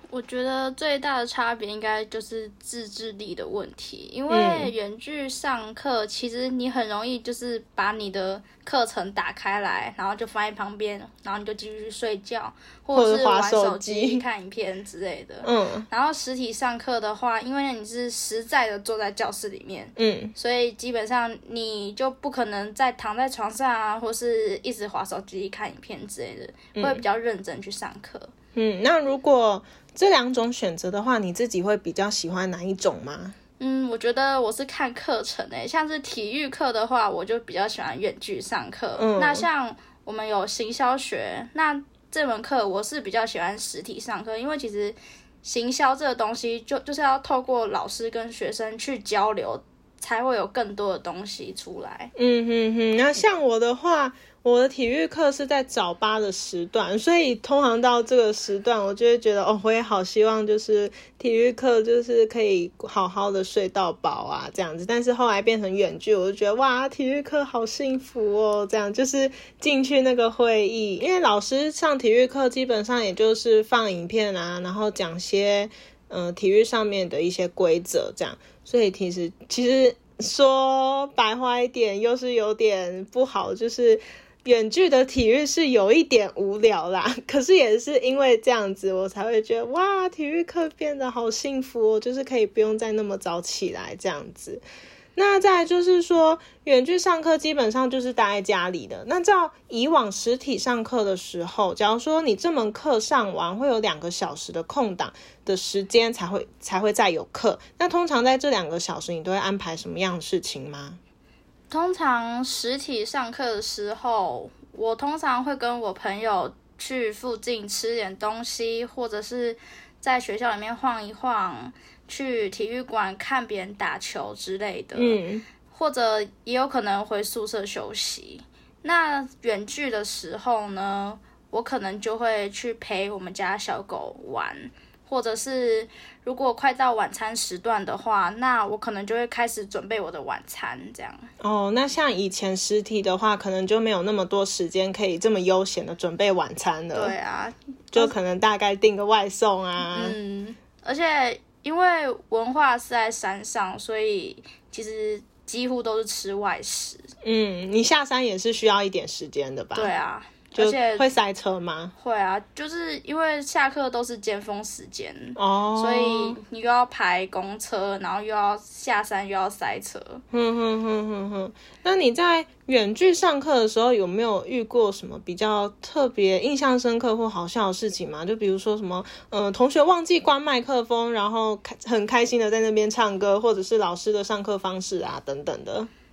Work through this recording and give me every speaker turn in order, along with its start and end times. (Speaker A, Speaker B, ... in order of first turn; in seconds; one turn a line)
Speaker A: 0.1-28.3
Speaker B: 4.3-4.7
Speaker B: 12.9-14.2
Speaker B: 15.4-15.9
Speaker B: 20.0-20.3
Speaker B: 26.7-27.0
Speaker B: 28.5-33.4
Speaker A: 33.6-52.1
Speaker B: 39.0-39.5
Speaker B: 52.1-94.6
Speaker B: 95.2-111.0
Speaker A: 111.7-125.2
Speaker B: 125.0-125.4
Speaker A: 125.7-141.3
Speaker B: 141.4-147.1
Speaker A: 146.9-148.1
Speaker B: 147.9-150.2
Speaker A: 149.8-157.1
Speaker B: 157.2-159.9
Speaker A: 159.7-161.1
Speaker B: 160.5-161.9
Speaker A: 162.0-170.2
Speaker B: 165.3-166.4
Speaker B: 170.3-185.9